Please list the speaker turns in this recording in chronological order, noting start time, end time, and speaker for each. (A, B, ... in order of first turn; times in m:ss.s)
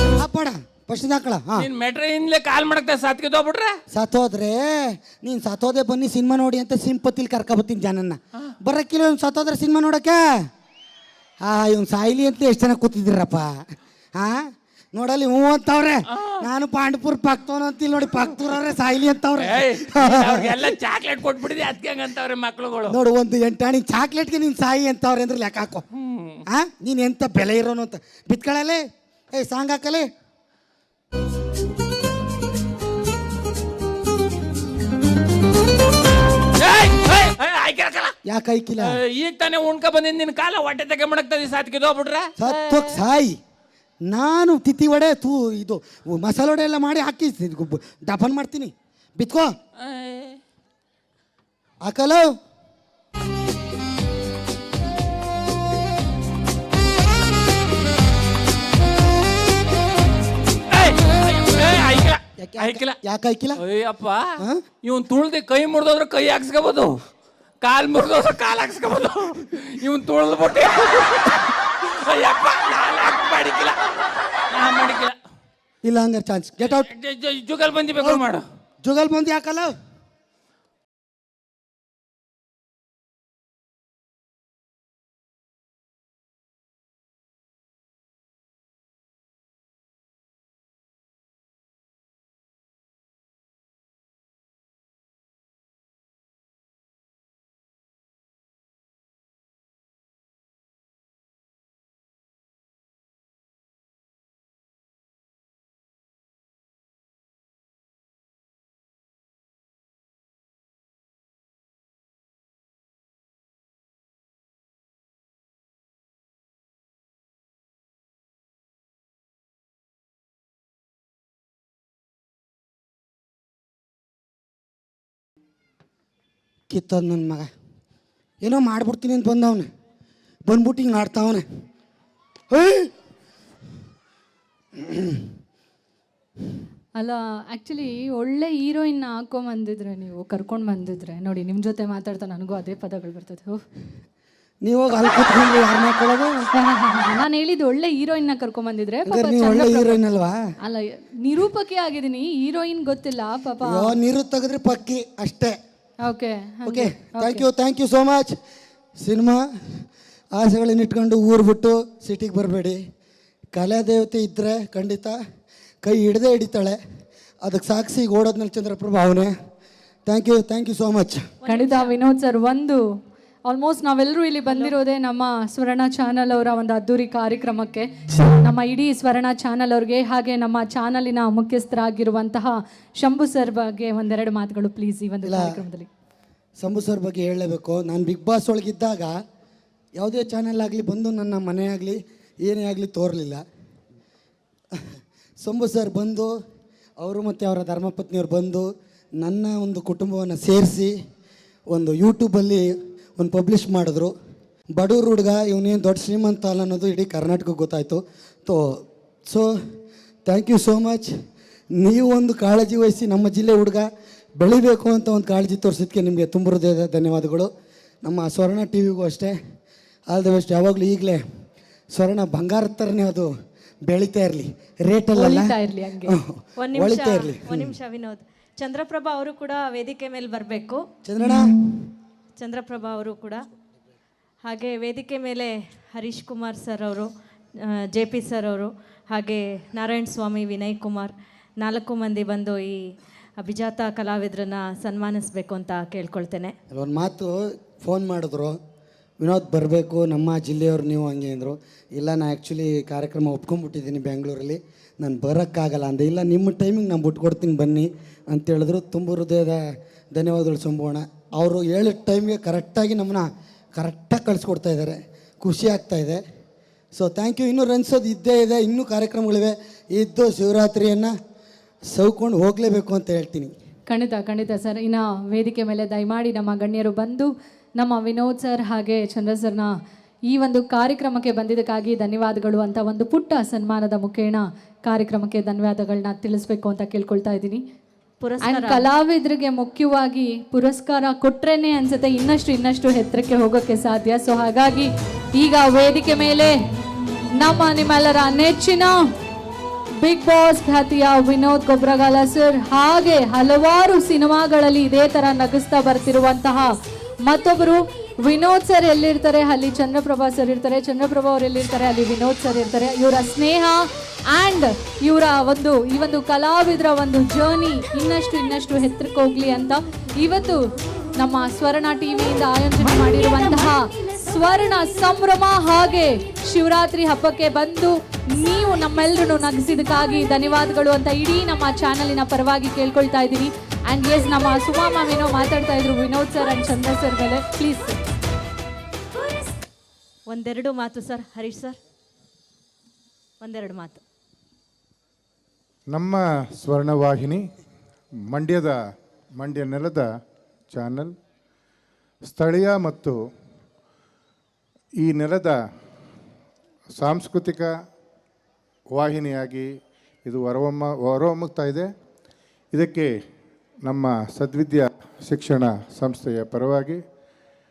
0:00.1-0:01.7 A
0:01.6-0:03.8 B
0:03.9-0:10.2 A
0:11.4-0:13.5 A
0:14.2-0:20.7 A
0:16.1-0:16.4 B
0:19.4-0:23.0 B
0:22.9-0:25.8 A
0:25.9-0:26.4 B
0:26.5-0:30.1 A
0:36.6-0:38.1 B
0:38.2-0:39.0 A
0:38.8-0:43.0 B
0:42.4-0:43.4 A
0:44.1-0:49.5 A
0:49.8-0:50.4 B
0:51.8-0:52.3 A
1:00.7-1:03.0 B
1:02.4-1:03.6 A
1:03.6-1:07.0 B
1:04.4-1:04.6 A
1:07.6-1:13.8 B
1:14.5-1:15.2 B
1:15.8-1:16.9 A
1:16.9-1:18.4 B
1:18.8-1:19.7 A
2:06.7-2:07.5 A
2:08.4-2:09.7 A
2:10.5-2:11.4 A
2:12.5-2:12.9 A
2:14.7-2:15.3 A
2:17.0-2:23.6 C
2:24.6-2:26.4 A
2:26.6-2:30.0 C
2:29.0-2:30.4 A
2:30.6-2:33.9 C
2:33.6-2:35.6 A
2:36.0-2:37.4 C
2:36.6-2:38.4 A
2:39.0-2:39.8 A
2:40.4-2:42.8 A
2:43.5-2:45.2 A
2:45.8-2:46.8 A
2:47.4-2:49.3 A
2:50.0-2:51.3 A
2:51.4-2:52.0 D
2:51.5-2:52.8 C
2:53.5-3:05.9 C
2:54.5-2:54.7 D
3:05.2-3:05.6 A
3:06.6-3:09.2 A
3:10.0-3:13.4 A
3:14.7-3:16.3 A
3:17.0-3:20.9 A
3:21.7-3:24.1 A
3:24.8-3:29.5 A
3:30.2-3:31.1 A
3:31.8-3:37.5 A
3:38.0-3:39.4 A
3:40.1-3:41.2 A
3:41.9-3:43.3 A
3:43.9-3:47.8 A
3:45.1-3:46.2 C
3:46.6-3:50.8 D
3:51.0-3:51.6 A
3:52.4-3:53.4 D
3:54.5-4:06.5 D
4:06.7-4:08.6 A
4:09.2-4:26.2 A
4:26.9-4:31.1 A
4:31.9-4:33.5 A
4:33.9-4:39.7 C
4:40.3-4:47.6 C
4:48.2-4:48.9 D
4:48.4-4:56.6 C
4:57.4-4:59.0 C
5:00.0-5:06.7 C
5:07.2-5:20.6 C
5:21.2-5:38.0 C
5:40.3-5:41.8 D
5:43.4-5:44.0 D
5:45.9-5:47.5 E
5:48.3-5:48.8 E
5:49.4-5:50.1 E
5:50.7-5:51.1 E
5:52.3-5:53.2 E
5:55.0-5:55.6 E
5:57.0-5:57.7 E
5:58.9-5:59.7 E
6:00.2-6:01.9 E
6:02.7-6:03.1 E
6:03.8-6:07.0 E